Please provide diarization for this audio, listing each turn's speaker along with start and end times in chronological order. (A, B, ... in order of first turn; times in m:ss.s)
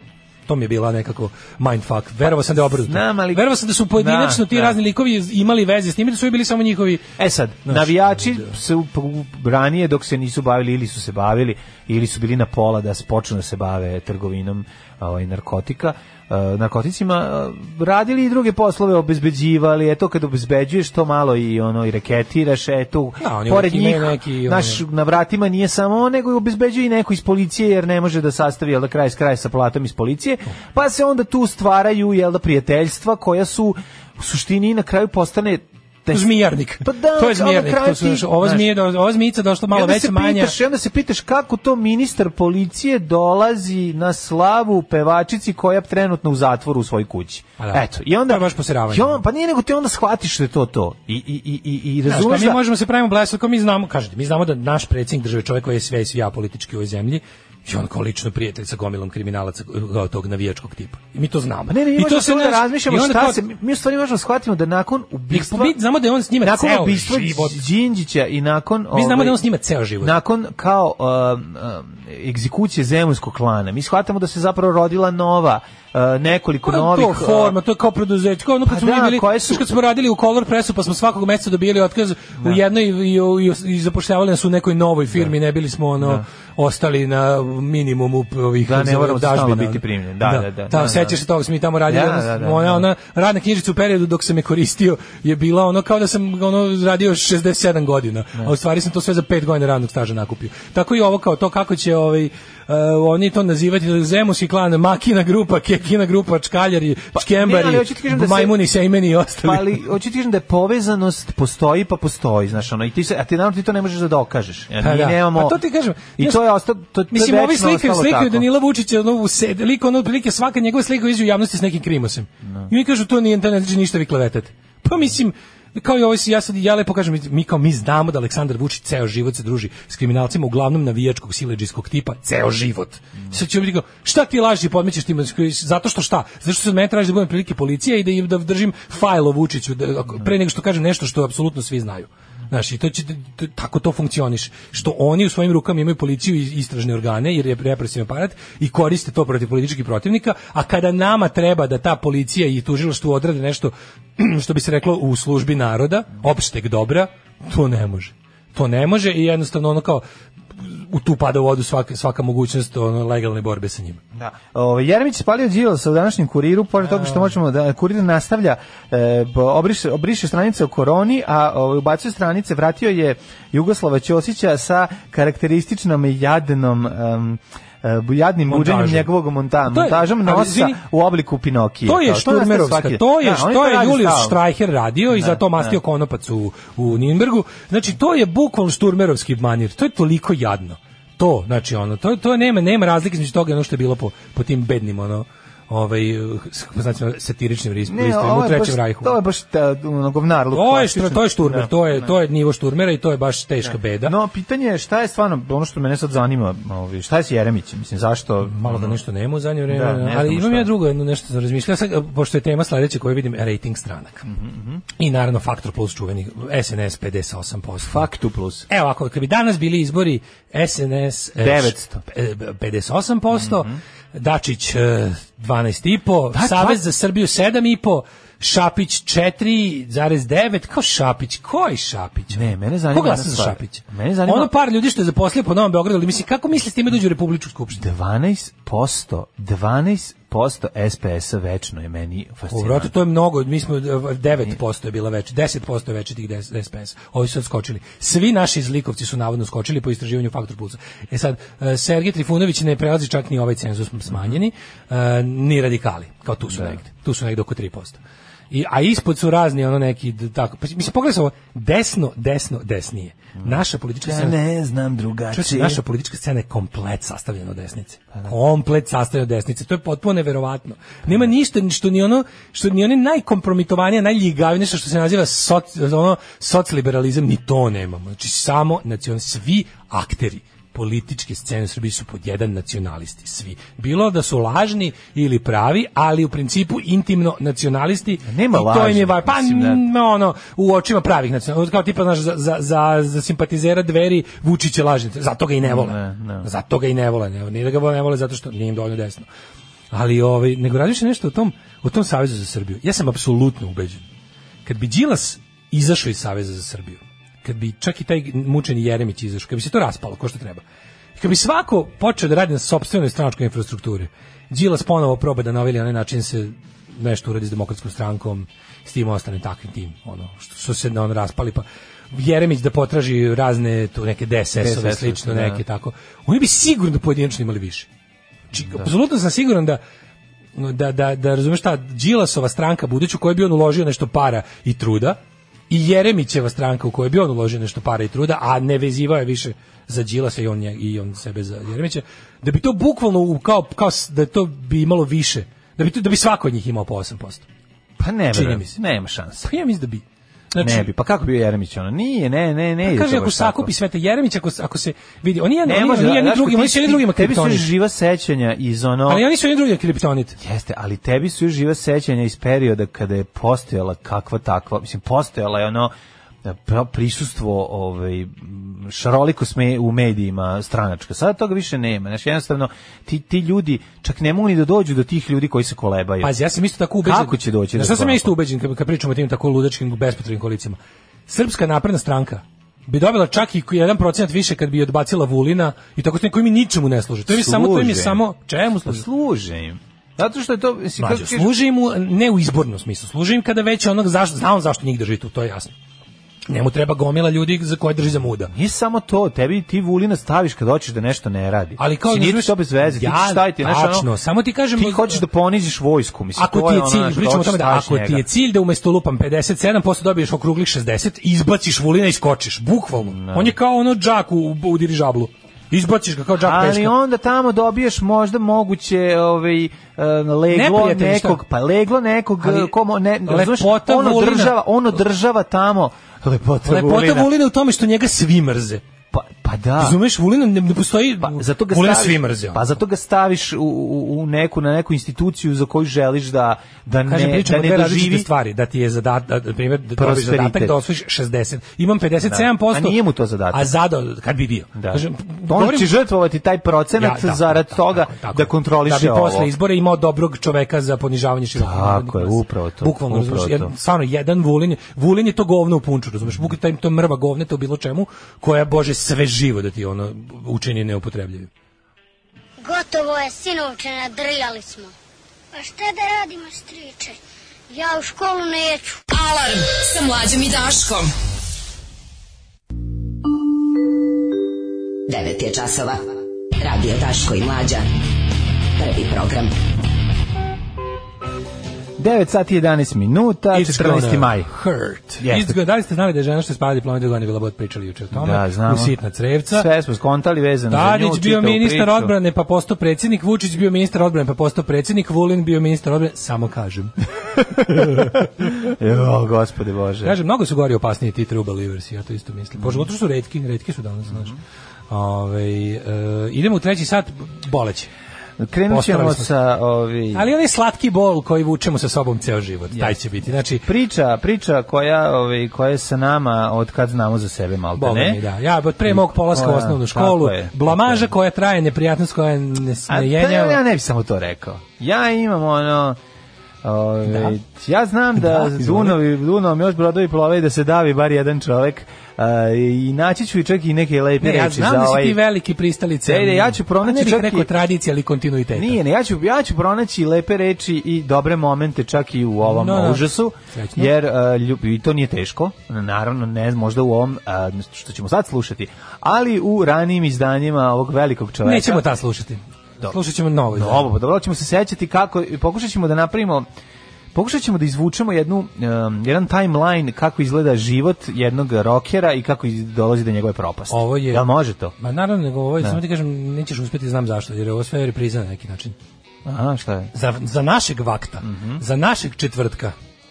0:00.5-0:07.1 A
0:02.8-0:04.8 B
0:07.2-0:38.7 B
0:07.6-0:08.5 A
0:23.2-0:24.8 A
0:36.1-0:40.6 A
0:39.7-0:52.6 B
0:47.6-0:49.2 A
0:52.1-1:03.4 A
1:01.7-1:05.8 B
1:05.3-1:07.6 A
1:06.4-1:09.4 B
1:08.9-1:10.2 A
1:10.0-1:17.6 B
1:16.6-1:49.8 A
1:18.6-1:19.6 B
1:28.6-1:31.2 B
1:31.9-1:32.9 B
1:47.2-1:48.6 B
1:49.4-1:55.6 B
1:54.8-1:56.4 A
1:56.2-1:58.4 B
1:57.1-2:40.0 A
2:40.6-2:44.0 A
2:44.2-3:04.4 B
2:46.8-2:47.3 A
2:58.5-2:59.1 A
2:59.7-3:00.8 A
3:01.9-3:19.2 A
3:05.1-3:05.8 B
3:17.9-3:22.1 B
3:20.5-3:24.2 A
3:23.6-3:29.0 B
3:28.4-3:34.3 A
3:29.7-3:30.7 B
3:34.3-3:34.8 B
3:35.0-3:38.1 A
3:37.8-3:38.7 B
3:38.7-3:57.9 A
3:41.4-3:42.0 B
3:43.3-3:43.8 B
3:46.3-3:46.8 B
3:52.3-3:54.5 B
3:57.8-4:02.9 B
4:02.5-4:18.0 A
4:16.5-4:16.8 B
4:18.5-4:24.4 A
4:23.4-4:25.8 B
4:25.3-4:59.3 A
4:48.3-4:49.8 B
4:55.6-4:56.5 B
4:59.9-5:04.0 A
5:04.6-5:10.6 A
5:11.2-5:27.9 A
5:24.6-5:25.6 B
5:28.5-5:29.8 A
5:30.6-5:35.2 A
5:35.7-5:47.4 A
5:48.0-5:49.5 B
5:48.3-5:48.8 A
5:49.4-5:50.9 A
5:50.6-5:53.7 B
5:52.8-5:57.7 A
5:55.6-5:59.2 B
5:59.1-6:00.4 A
6:00.4-6:05.9 B
6:06.4-6:16.4 B
6:16.2-6:29.0 A
6:17.0-6:18.3 B
6:27.3-6:28.2 B
6:28.8-6:31.5 B
6:31.0-6:35.7 A
6:36.5-6:38.5 A
6:38.5-6:44.1 B
6:41.8-6:45.2 A
6:44.8-6:48.2 B
6:46.4-6:56.9 A
6:53.1-6:53.5 B
6:56.4-7:07.3 B
7:00.5-7:01.4 A
7:02.4-7:02.7 A
7:03.3-7:04.6 A
7:06.6-7:08.8 A
7:09.1-7:10.0 B
7:09.8-7:12.6 A
7:11.2-7:18.3 B
7:17.1-7:23.0 A
7:20.0-7:20.8 B
7:22.2-7:23.7 B
7:23.5-7:25.9 A
7:24.7-7:29.5 B
7:27.0-7:41.5 A
7:31.6-7:33.7 B
7:42.6-7:44.9 C
7:45.5-7:47.2 C
7:47.7-7:49.0 C
7:49.1-7:51.1 D
7:55.1-7:56.0 E
7:56.6-7:57.9 E
7:58.8-7:59.5 E
8:02.0-8:04.5 B
8:03.5-8:09.7 A
8:05.2-8:05.6 B
8:08.1-8:09.0 B
8:09.5-8:12.1 B
8:10.7-8:18.2 A
8:17.7-8:20.2 B
8:20.0-8:24.4 A
8:22.6-8:22.9 B
8:24.9-8:27.9 A
8:28.4-8:30.3 B
8:28.7-8:29.3 A
8:30.1-8:33.6 A
8:32.7-8:38.2 B
8:37.8-8:43.6 A
8:38.8-8:41.1 B
8:42.9-8:46.0 B
8:46.6-8:55.2 B
8:47.1-8:47.4 A
8:48.2-8:49.0 A
8:54.2-8:58.8 A
8:56.0-8:57.5 B
8:58.6-9:11.8 B
9:02.4-9:03.9 A
9:11.4-9:13.9 A
9:13.5-9:16.4 B
9:17.1-9:24.7 B
9:23.7-9:24.3 A
9:24.8-9:28.8 A
9:29.2-9:29.9 B
9:29.9-9:32.7 A
9:31.2-9:31.6 B